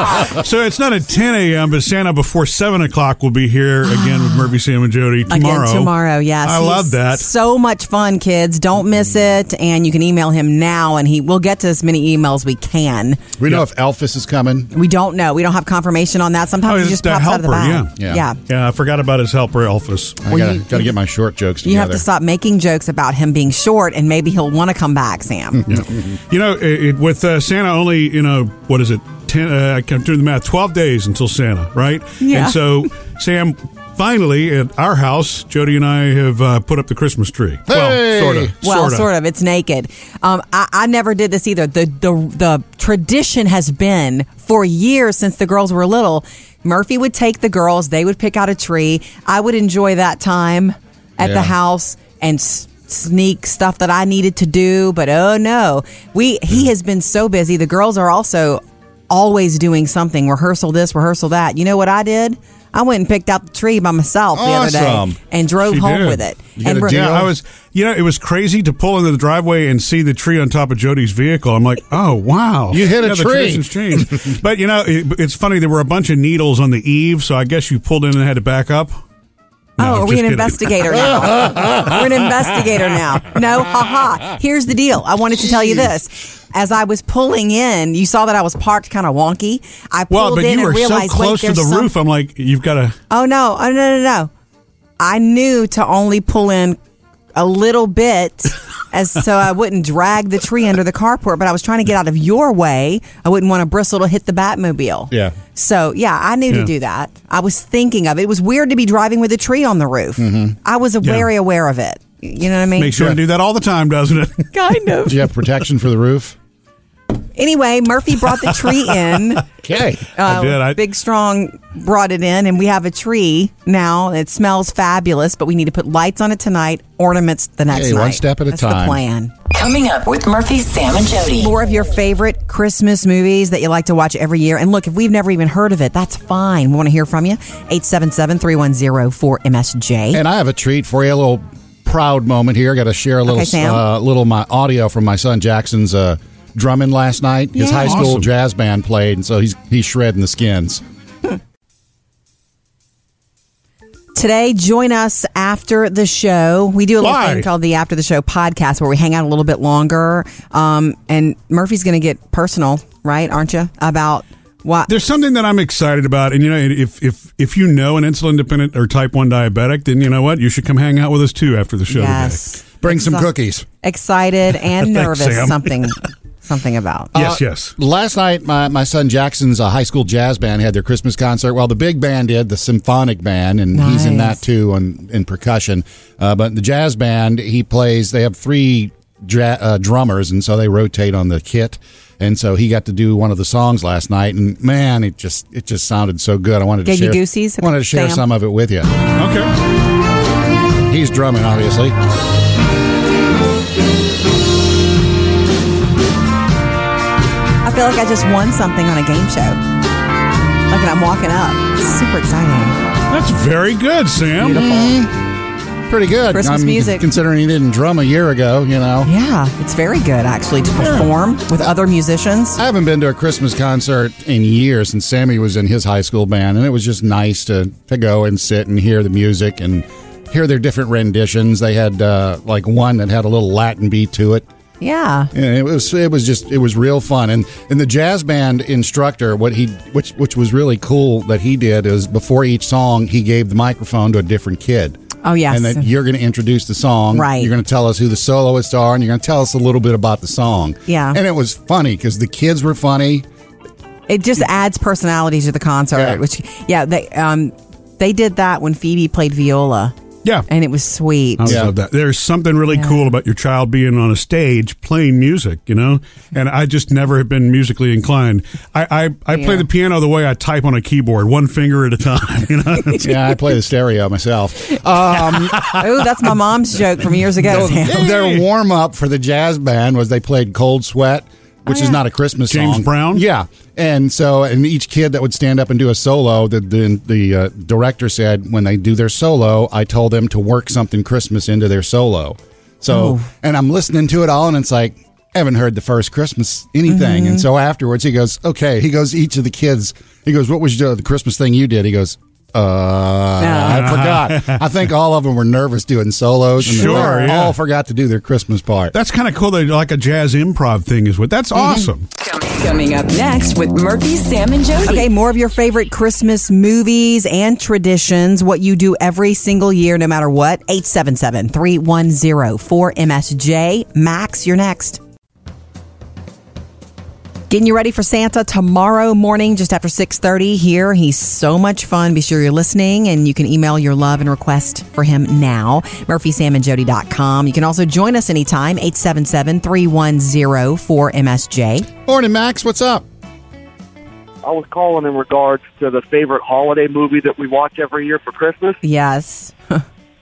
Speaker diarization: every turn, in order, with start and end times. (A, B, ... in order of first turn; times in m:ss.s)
0:00.1-0:07.3 A
0:04.0-0:04.4 B
0:05.3-0:13.2 B
0:13.4-0:14.7 C
0:14.7-0:18.4 B
0:16.6-0:17.9 A
0:18.0-0:18.2 C
0:18.5-0:20.3 A
0:20.2-0:22.0 C
0:20.3-0:20.8 B
0:21.6-0:25.7 B
0:26.1-0:39.1 A
0:32.2-0:32.8 B
0:37.7-0:38.5 C
0:38.6-1:07.0 B
0:51.2-0:51.5 C
1:04.3-1:05.2 C
1:05.6-1:06.2 A
1:06.6-1:07.3 C
1:06.8-1:19.0 A
1:12.7-1:14.4 C
1:19.8-1:20.7 A
1:19.8-1:31.9 B
1:21.4-1:21.9 C
1:30.1-1:33.0 A
1:33.1-1:34.3 B
1:35.0-1:36.8 B
1:37.3-1:53.0 B
1:45.1-1:45.4 C
1:50.2-1:50.6 C
1:51.0-1:51.3 A
1:52.8-1:54.5 A
1:54.5-1:55.2 B
1:55.1-1:56.4 C
1:57.4-1:59.4 B
1:59.6-2:00.1 C
2:00.2-2:09.3 B
2:00.2-2:00.8 A
2:07.7-2:09.0 C
2:09.5-2:11.5 D
2:11.4-2:20.2 B
2:20.1-2:30.8 C
2:23.2-2:23.8 B
2:27.5-2:28.1 B
2:27.8-2:28.3 A
2:34.1-2:44.9 B
2:37.0-2:37.5 A
2:44.9-2:52.4 A
2:51.9-2:57.1 B
2:52.8-2:53.6 C
2:54.7-2:55.9 A
2:57.1-3:18.9 C
2:57.1-2:57.7 A
3:03.7-3:04.4 B
3:16.8-3:18.2 B
3:19.2-3:19.5 A
3:20.9-3:21.9 C
3:27.6-3:29.6 B
3:30.7-3:32.8 B
3:33.1-3:34.7 A
3:34.4-3:34.9 B
3:34.4-3:35.1 C
3:35.9-3:39.1 C
3:36.3-3:37.0 B
3:39.0-3:42.6 B
3:40.8-3:41.1 C
3:42.6-3:54.4 C
3:54.8-3:55.3 B
3:55.3-4:13.2 C
4:05.2-4:05.9 B
4:07.1-4:07.5 B
4:10.9-4:11.2 B
4:14.1-4:19.9 B
4:15.9-4:16.2 C
4:20.5-4:21.5 B
4:21.4-4:33.1 A
4:21.5-4:21.7 C
4:22.7-4:23.1 B
4:29.3-4:29.6 B
4:33.0-4:35.7 C
4:35.6-4:38.0 B
4:37.5-4:38.4 A
4:37.5-5:08.9 C
4:41.7-4:42.0 B
4:42.5-4:43.2 A
4:52.9-4:53.2 B
4:56.9-4:57.4 B
5:03.4-5:03.8 B
5:03.7-5:04.6 A
5:06.6-5:07.6 A
5:06.7-5:07.3 B
5:08.9-5:12.1 A
5:11.6-5:11.9 C
5:12.2-5:15.1 D
5:14.8-5:25.0 B
5:27.5-5:41.9 B
5:42.0-5:43.0 C
5:44.4-5:48.8 E
5:48.8-5:49.8 B